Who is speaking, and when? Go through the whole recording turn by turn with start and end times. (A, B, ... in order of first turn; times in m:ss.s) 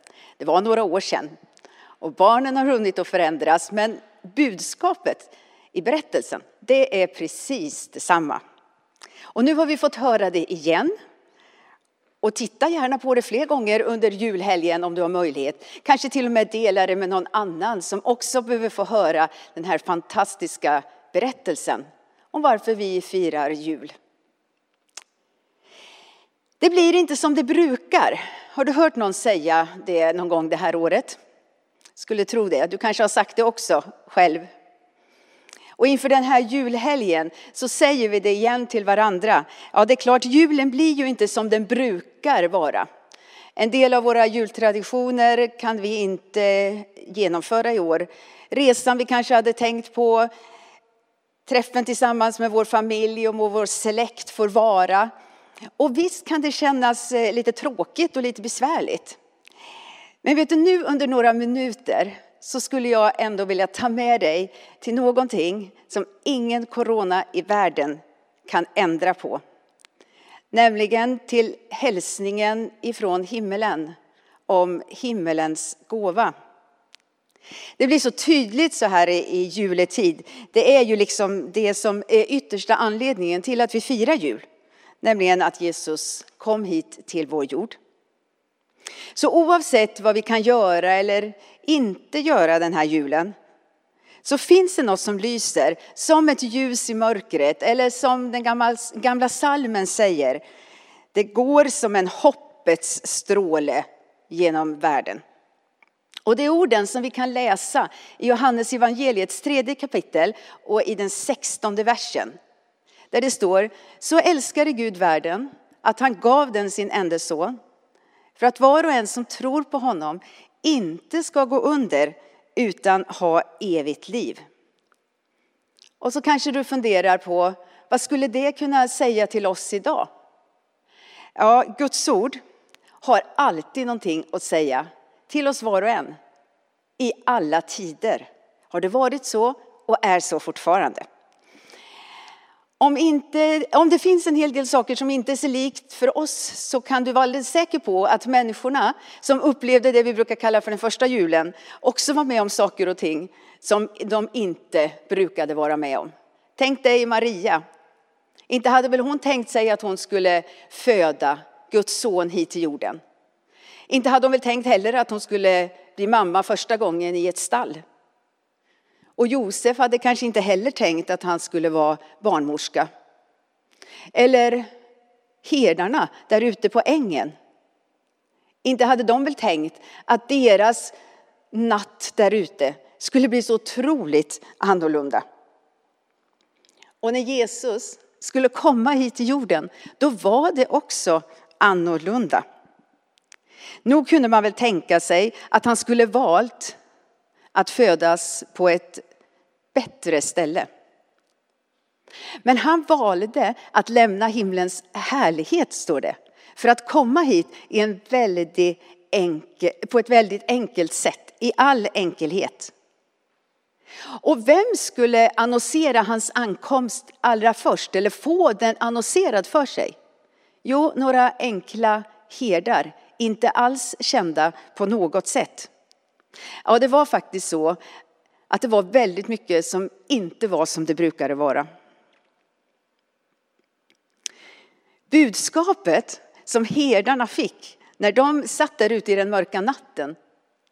0:00.4-0:01.3 A
0:02.0-0:08.4 A
0:09.3-0:10.9 A
0:12.2-0:23.9 A
0:26.6-0:31.2 A
0:32.0-0:34.5 A
0:35.8-0:42.9 A
0:43.6-0:50.3 A
0:51.5-0:55.1 A
0:55.8-0:59.2 A
1:00.2-1:09.4 A
1:10.5-1:13.9 A
1:14.5-1:16.3 A
1:17.8-1:24.4 A
1:25.0-1:27.8 A
1:29.1-1:33.3 A
1:34.2-1:40.4 A
1:41.1-1:45.2 A
1:46.2-1:52.4 A
1:53.1-1:57.6 A
1:58.4-2:04.4 A
2:06.0-2:10.1 A
2:11.4-2:12.4 A
2:13.0-2:16.2 A
2:17.0-2:21.0 A
2:22.8-2:37.6 A
2:38.5-2:43.0 A
2:43.9-2:47.8 A
2:49.2-2:52.9 A
2:54.1-2:54.7 A
2:55.4-2:57.3 A
2:58.6-3:00.9 A
3:01.5-3:05.2 A
3:07.0-3:12.4 A
3:13.8-3:16.8 A
3:17.5-3:19.0 A
3:19.7-3:20.7 A
3:22.4-3:32.7 A
3:34.2-3:39.9 A
3:40.6-3:45.7 A
3:46.6-3:47.8 A
3:48.5-3:51.7 A
3:55.1-4:00.2 A